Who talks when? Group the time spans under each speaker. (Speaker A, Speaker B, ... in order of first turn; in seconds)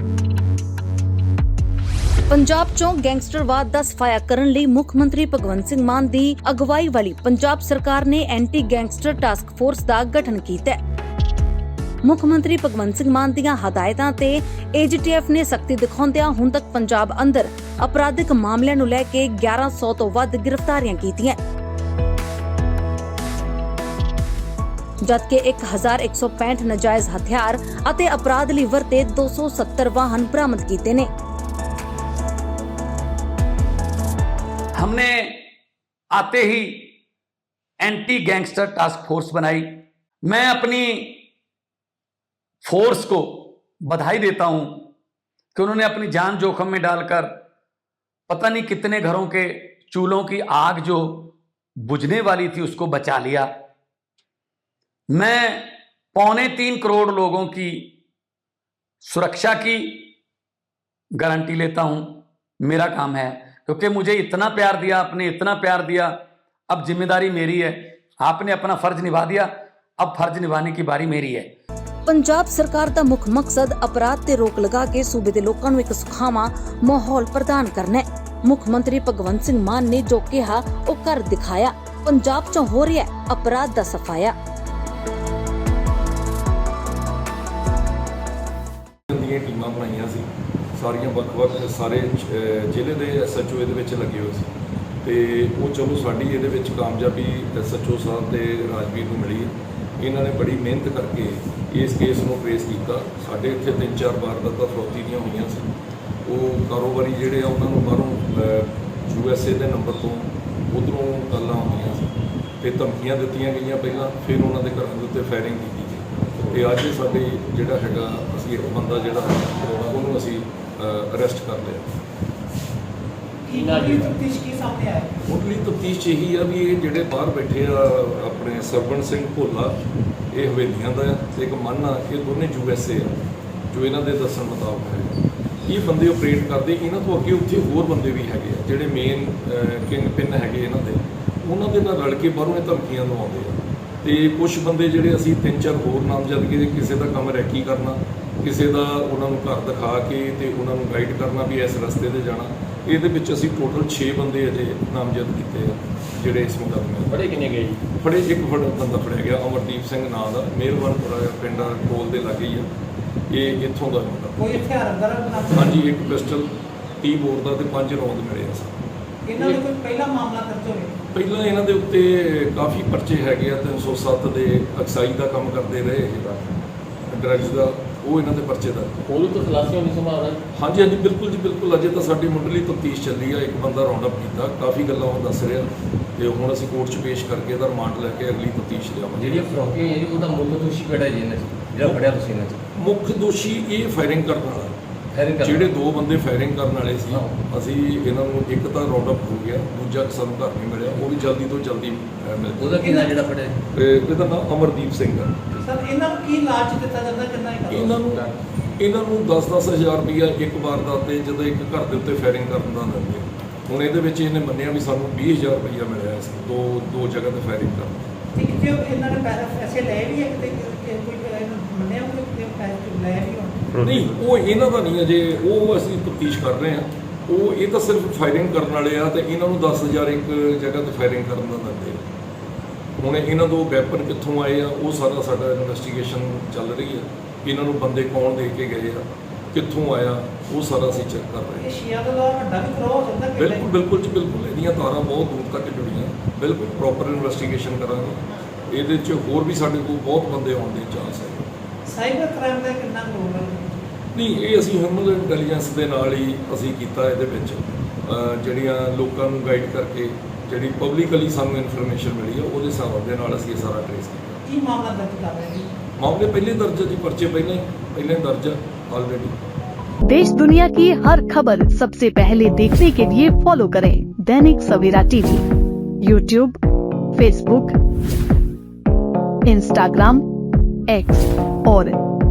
Speaker A: 2.3-10.8, 12.0-21.4, 25.0-31.1, 72.0-84.3
Speaker B: 34.8-35.4, 36.1-36.9, 37.8-41.2, 42.6-44.9, 45.5-47.3, 48.3-53.5, 55.1-57.9, 59.0-60.1, 61.2-66.1, 66.7-71.5
Speaker C: 89.1-105.7, 106.2-121.9, 125.2-129.8, 130.3-133.2, 133.7-157.2, 158.0-162.7, 163.3-164.5, 165.5-168.8, 171.1-176.6, 177.1-179.1, 180.5-189.5, 191.8-192.1, 192.7-194.8, 195.4-202.9, 203.7-205.3, 207.7-218.1, 223.8-232.0, 233.0-241.7, 243.4-251.5, 254.1-264.4, 266.0-269.3
Speaker D: 123.5-125.1, 164.4-165.8, 169.2-170.9, 202.8-203.1, 205.6-208.0, 218.3-223.8, 241.6-243.7, 251.9-253.8, 264.5-265.7
Speaker E: 157.3-157.8, 179.2-180.4, 189.2-192.6, 195.1-195.6, 202.6-203.6
Speaker F: 270.0-275.4, 276.0-276.6, 277.1-277.8, 279.4-280.2, 280.9-282.0